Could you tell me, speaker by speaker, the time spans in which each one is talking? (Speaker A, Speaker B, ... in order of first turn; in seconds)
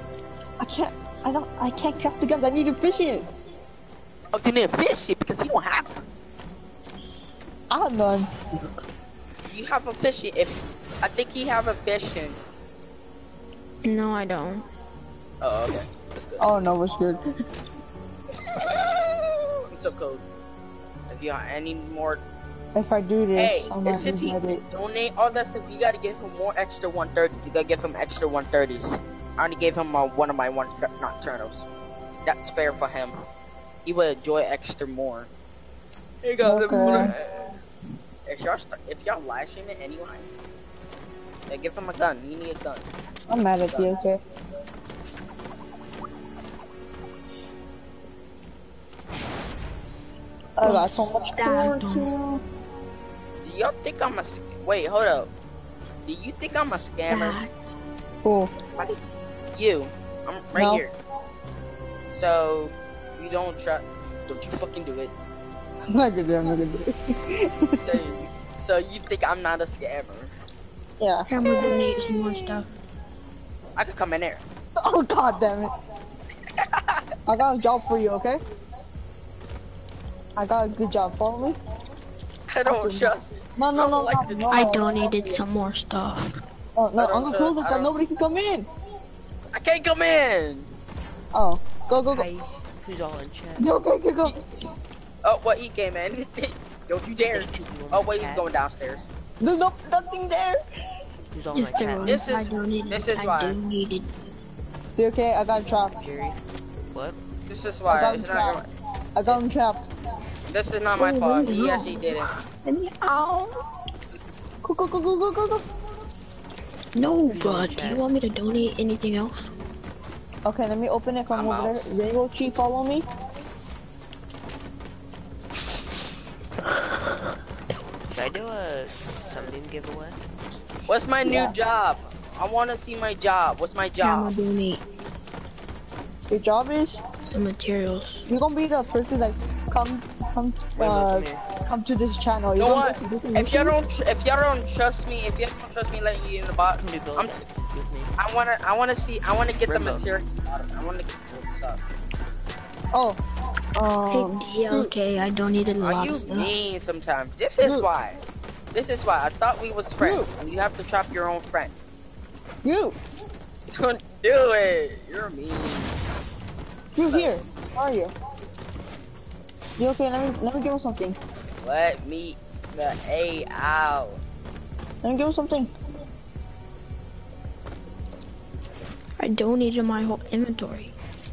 Speaker A: 0.6-3.2, 7.7-8.3, 16.4-17.2, 22.7-24.6, 36.4-37.1, 43.3-44.2, 50.6-52.4, 58.2-58.5, 60.5-60.8, 65.9-67.8, 71.0-71.3, 74.8-75.7, 77.3-78.4, 80.3-81.6, 82.6-85.1, 86.8-88.7, 91.3-92.3, 93.6-94.4, 99.4-100.6, 105.0-106.0, 107.9-108.6, 109.1-109.9, 111.0-111.8, 114.6-115.7, 120.4-123.0, 131.2-131.5, 136.3-137.0, 138.3-143.9, 152.9-153.2, 153.8-154.9, 156.3-156.6, 157.6-157.9, 160.0-160.3, 162.6-163.0, 166.9-168.1, 169.8-171.2, 175.0-175.7
Speaker B: 4.3-6.0, 9.5-12.4, 15.4-16.5, 18.6-20.2, 21.1-22.2, 23.4-31.6, 32.2-33.1, 33.8-35.3, 36.2-37.5, 38.2-40.3, 41.5-42.9, 43.7-44.0, 53.4-55.3, 56.0-57.4, 59.5-60.9, 62.1-65.1, 67.8-70.3, 73.8-74.4, 76.6-77.0, 82.5-84.8, 87.0-87.9, 89.5-90.7, 95.2-99.1, 102.0-103.6, 107.5-108.7, 110.5-112.3, 121.3-122.0, 130.9-134.3, 142.6-147.4, 148.2-151.8, 155.8-158.2, 158.7-161.8, 163.7-166.0, 167.0-167.4, 171.6-174.2
Speaker C: 13.8-14.6, 50.6-52.1, 56.5-57.7, 71.3-72.7, 84.5-86.3, 101.5-104.1, 111.3-112.0, 112.6-113.6, 116.9-119.5, 126.7-127.3, 134.0-134.8, 137.3-138.3, 154.1-156.4, 179.2-180.9
Speaker D: 92.1-93.7, 97.3-98.5, 101.3-102.3, 106.0-106.4, 106.9-107.2, 117.3-118.0, 128.1-130.2, 140.8-141.4, 146.8-148.1, 149.6-150.1